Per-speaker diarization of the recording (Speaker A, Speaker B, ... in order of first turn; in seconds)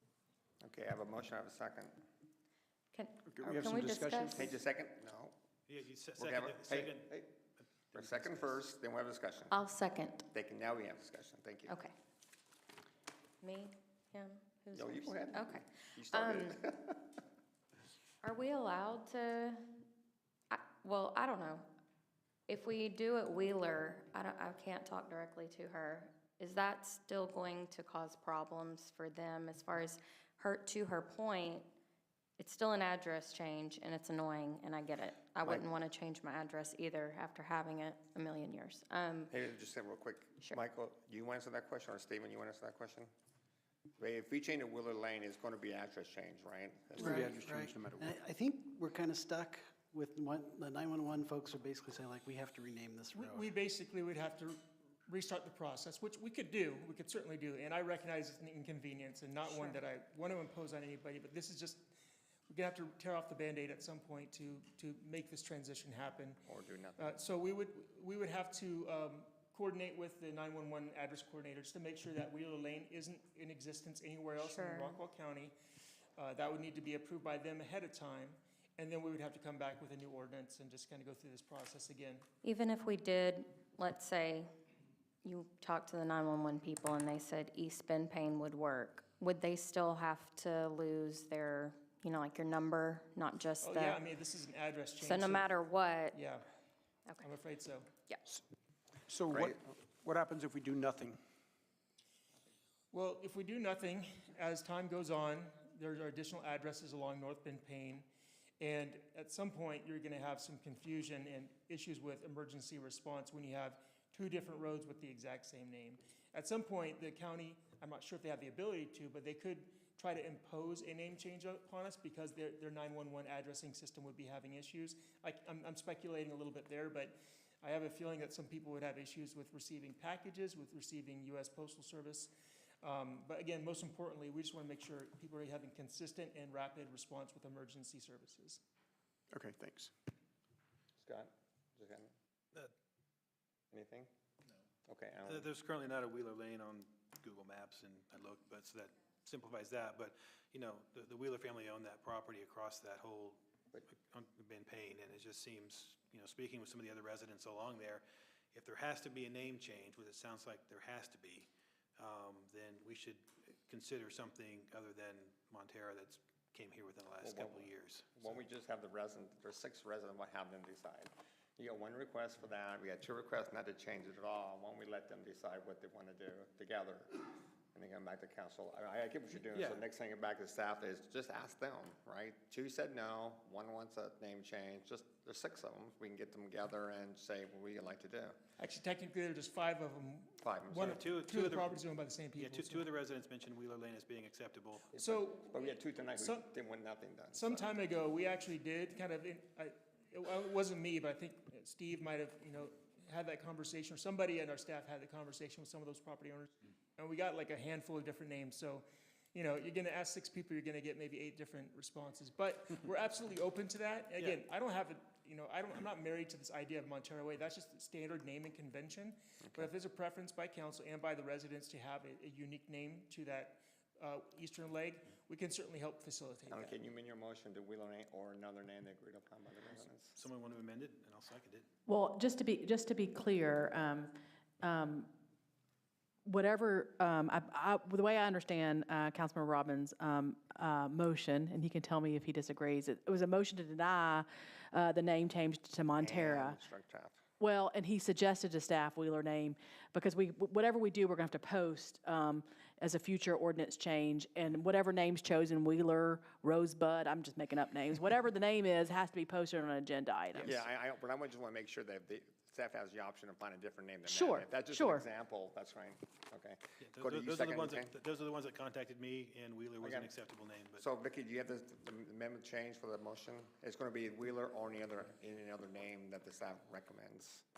Speaker A: 0.6-2.0, 4.3-5.3, 6.2-7.3, 7.9-9.6, 10.3-11.8, 14.7-17.1, 39.3-43.1, 44.0-47.4, 66.5-67.1, 99.3-99.5, 141.0-142.1, 143.7-144.1, 144.9-145.5, 167.2-188.4, 190.4-191.0, 194.9-197.7, 226.5-230.2, 246.0-247.2, 260.4-267.9, 269.8-270.1, 270.8-277.4
Speaker B: 2.9-4.5, 9.5-10.2, 13.4-16.6, 18.2-19.8, 20.5-21.7, 22.5-31.7, 32.4-39.3, 59.5-59.8, 74.4-75.0, 82.4-84.5, 85.2-94.0, 95.0-96.2
Speaker C: 3.8-4.1, 47.2-48.0, 99.2-99.5, 100.0-101.2
Speaker D: 5.7-8.6, 145.2-158.0, 158.5-168.3, 179.5-179.8, 190.8-191.8, 192.3-194.9, 230.1-231.7, 266.8-270.8
Speaker E: 47.0-53.5
Speaker F: 53.1-61.9, 62.5-66.4, 67.0-75.5, 76.2-82.2, 93.6-95.5, 96.1-96.5, 97.2-97.9, 102.9-108.0, 108.6-138.6, 188.6-192.8, 194.9-195.6, 196.2-196.4, 197.3-226.7
Speaker G: 231.9-235.1, 236.2-246.6, 247.4-260.6, 264.1-265.0